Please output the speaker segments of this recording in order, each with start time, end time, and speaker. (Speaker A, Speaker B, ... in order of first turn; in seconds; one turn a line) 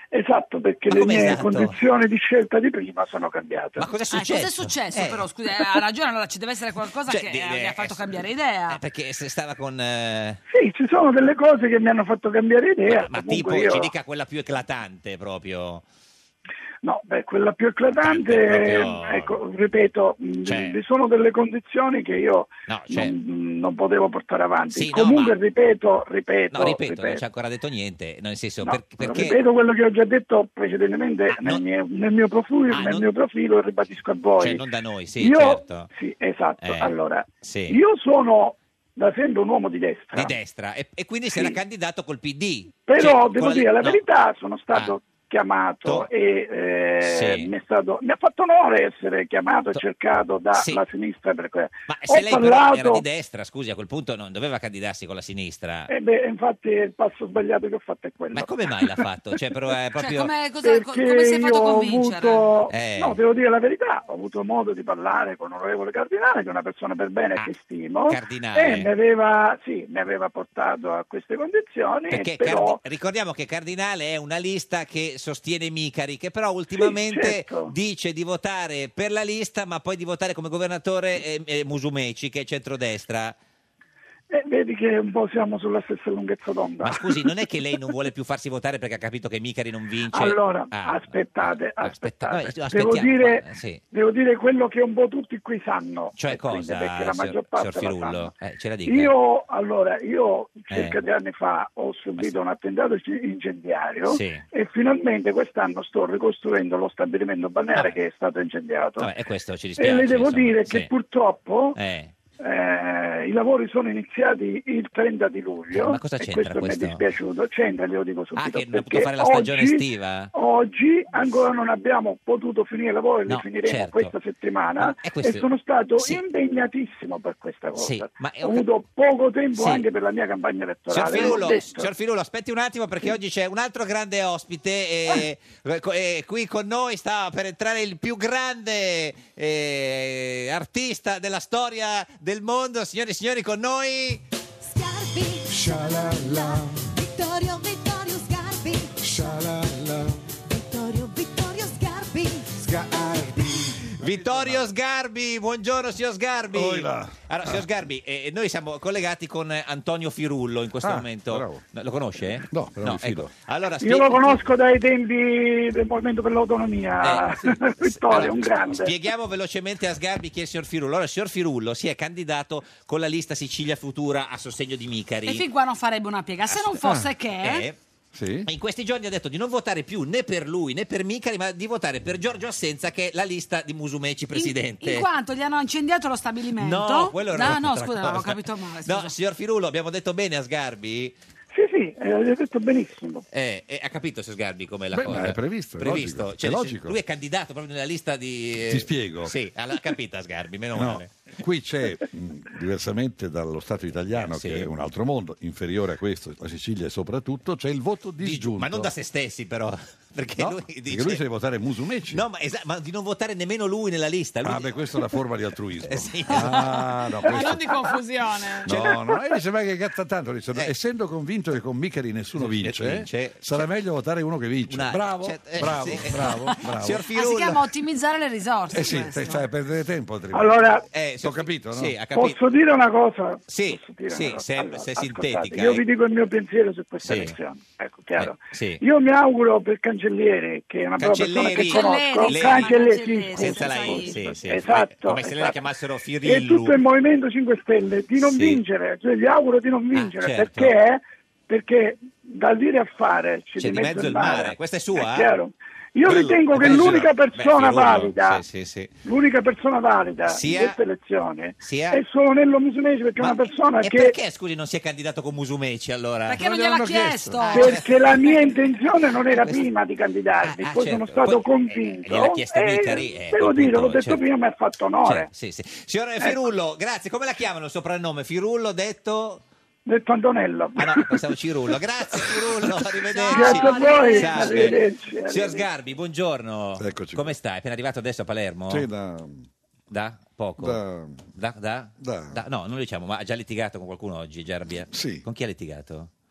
Speaker A: 0.1-3.9
Speaker B: 0.9-1.8
Speaker B: 3.8-5.3
Speaker C: 4.1-8.8
Speaker B: 7.1-10.4
Speaker A: 10.5-13.9
Speaker B: 12.9-15.8
Speaker A: 16.8-27.2
Speaker B: 18.0-19.4
Speaker B: 20.4-20.8
Speaker B: 22.7-23.2
Speaker B: 24.7-25.4
Speaker B: 26.5-29.4
Speaker A: 28.6-34.6
Speaker B: 31.3-31.6
Speaker B: 32.7-33.1
Speaker B: 34.4-35.9
Speaker A: 35.2-40.3
Speaker B: 36.6-37.8
Speaker B: 40.1-44.0
Speaker A: 41.3-41.6
Speaker A: 42.8-53.0
Speaker B: 45.8-46.1
Speaker B: 47.0-47.5
Speaker B: 50.5-50.8
Speaker B: 51.9-55.9
Speaker A: 55.9-58.9
Speaker B: 58.3-60.3
Speaker C: 60.0-62.5
Speaker A: 60.6-72.8
Speaker B: 62.7-63.2
Speaker B: 68.1-68.9
Speaker B: 72.1-83.4
Speaker A: 76.7-77.7
Speaker A: 84.3-87.3
Speaker B: 86.8-93.8
Speaker A: 90.1-98.3
Speaker B: 96.2-99.2
Speaker A: 98.9-109.1
Speaker B: 100.7-101.0
Speaker B: 104.1-104.5
Speaker B: 107.7-108.0
Speaker B: 109.0-110.9
Speaker A: 109.8-111.8
Speaker B: 111.8-112.2
Speaker A: 112.4-131.9
Speaker B: 115.7-117.0
Speaker B: 118.3-120.3
Speaker B: 123.3-124.2
Speaker B: 124.8-126.2
Speaker B: 127.8-128.7
Speaker B: 129.6-129.9
Speaker B: 130.9-144.2
Speaker D: 144.6-149.4
Speaker E: 145.5-146.9
Speaker E: 149.0-150.2
Speaker D: 150.4-152.5
Speaker E: 152.5-154.7
Speaker B: 153.9-164.4
Speaker E: 156.5-157.7
Speaker E: 160.8-161.6
Speaker E: 162.4-163.3
Speaker A: 163.8-168.9
Speaker B: 167.0-175.5
Speaker C: 175.3-177.7
Speaker B: 176.5-177.8
Speaker E: 176.8-177.1
Speaker E: 178.1-178.5
Speaker B: 178.5-185.1
Speaker C: 184.3-189.2
Speaker B: 186.6-191.2
Speaker A: 191.5-193.2
Speaker B: 193.3-201.3
Speaker E: 194.9-197.0
Speaker E: 198.6-199.3
Speaker E: 200.7-208.9
Speaker B: 204.1-204.7
Speaker B: 208.2-211.2
Speaker E: 210.4-212.2
Speaker B: 212.1-215.1
Speaker E: 214.4-217.8
Speaker B: 215.8-217.5
Speaker C: 216.3-218.7
Speaker E: 218.6-227.1
Speaker B: 218.7-219.1
Speaker B: 222.4-223.4
Speaker B: 224.7-227.7
Speaker C: 227.1-229.4
Speaker E: 228.7-230.6
Speaker A: 230.3-230.9
Speaker B: 230.9-232.4
Speaker E: 231.2-232.0
Speaker A: 232.1-245.6
Speaker B: 233.5-235.9
Speaker B: 237.0-237.4
Speaker B: 238.2-238.8
Speaker B: 241.0-246.8
Speaker C: 241.5-244.5
Speaker A: 246.2-258.4
Speaker B: 248.2-248.6
Speaker B: 249.9-250.8
Speaker B: 253.6-255.4
Speaker B: 256.1-258.9
Speaker A: 259.0-264.2
Speaker B: 260.3-260.8
Speaker B: 261.6-262.0
Speaker B: 263.2-266.4
Speaker C: 266.3-267.8
Speaker E: 266.3-267.6
Speaker B: 267.4-268.6
Speaker A: 267.5-275.3
Speaker B: 269.3-269.7
Speaker B: 270.4-274.2
Speaker B: 275.1-279.4
Speaker A: 279.9-281.2
Speaker B: 280.8-288.9
Speaker C: 283.1-284.8
Speaker A: 283.3-285.7
Speaker E: 286.8-287.4
Speaker E: 288.7-289.5
Speaker B: 289.9-290.8
Speaker E: 290.6-291.3
Speaker B: 291.4-296.1
Speaker E: 292.0-292.4
Speaker E: 294.9-295.3